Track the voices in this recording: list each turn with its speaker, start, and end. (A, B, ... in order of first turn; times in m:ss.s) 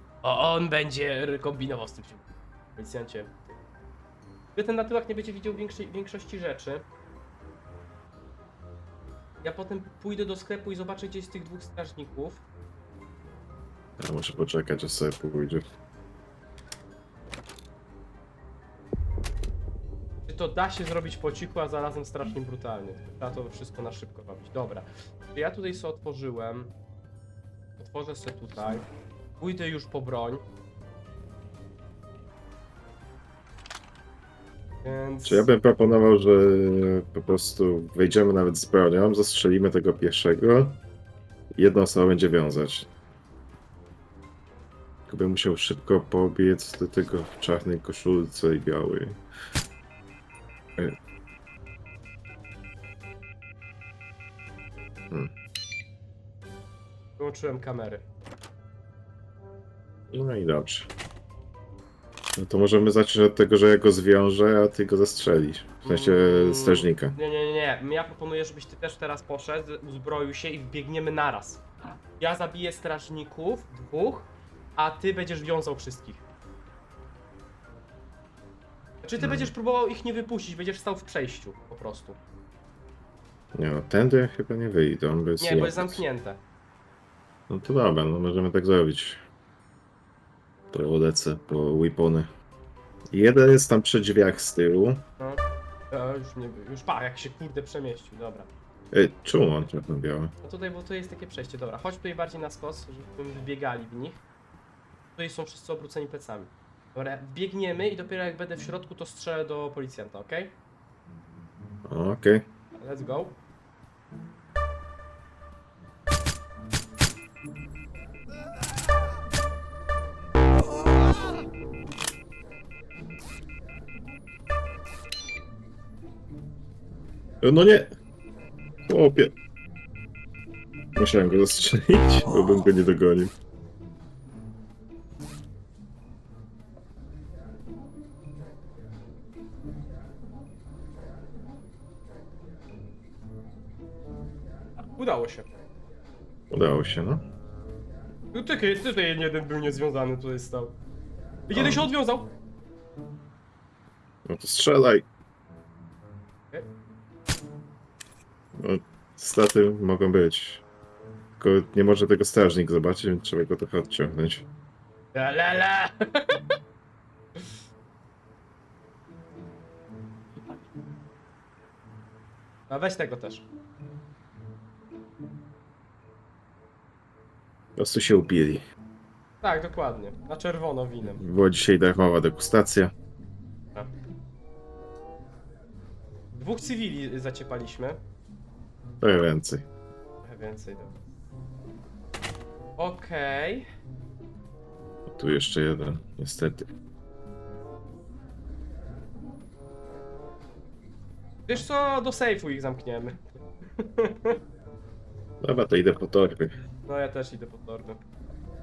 0:00.2-0:03.4 A
0:04.6-0:06.8 A
0:09.4-0:12.4 A
0:14.0-0:15.6 B
0:20.3-0:26.7 A
0:27.8-0:28.9 A
0:29.4-0:30.4 A
0:34.8-0:35.5 A
0:35.2-0:40.8 B
0:41.5-0:42.9 B
0:45.1-0:49.2 B
0:57.2-0:58.1 A
1:00.1-1:00.9 B
1:02.4-1:07.2 B
1:05.8-1:11.6 A
1:12.2-1:16.2 A
1:19.0-1:22.2 A
1:19.2-1:19.5 B
1:23.6-1:26.0 B
1:25.4-1:26.4 A
1:27.5-1:29.2 B
1:30.7-1:32.3 B
1:33.1-1:35.0 B
1:35.2-1:38.5 A
1:38.9-1:40.3 B
1:40.4-1:44.2 A
1:45.2-1:50.6 A
1:51.9-1:52.4 B
1:52.8-1:53.4 A
2:07.4-2:07.9 B
2:08.9-2:09.3 B
2:11.0-2:13.3 B
2:25.0-2:25.5 A
2:26.5-2:27.2 B
2:28.3-2:30.8 A
2:31.5-2:32.3 A
2:31.5-2:31.9 B
2:34.2-2:35.1 B
2:38.6-2:40.6 B
2:41.4-2:44.4 B
2:45.1-2:46.4 A
2:52.7-2:53.5 A
2:57.8-2:58.6 B
2:59.4-3:01.2 A
3:01.2-3:02.9 B
3:06.3-3:08.0 A
3:09.0-3:09.7 B
3:10.2-3:10.9 A
3:12.8-3:13.7 A
3:15.1-3:16.7 B
3:21.5-3:24.4 A
3:25.4-3:26.5 B
3:26.9-3:28.0 A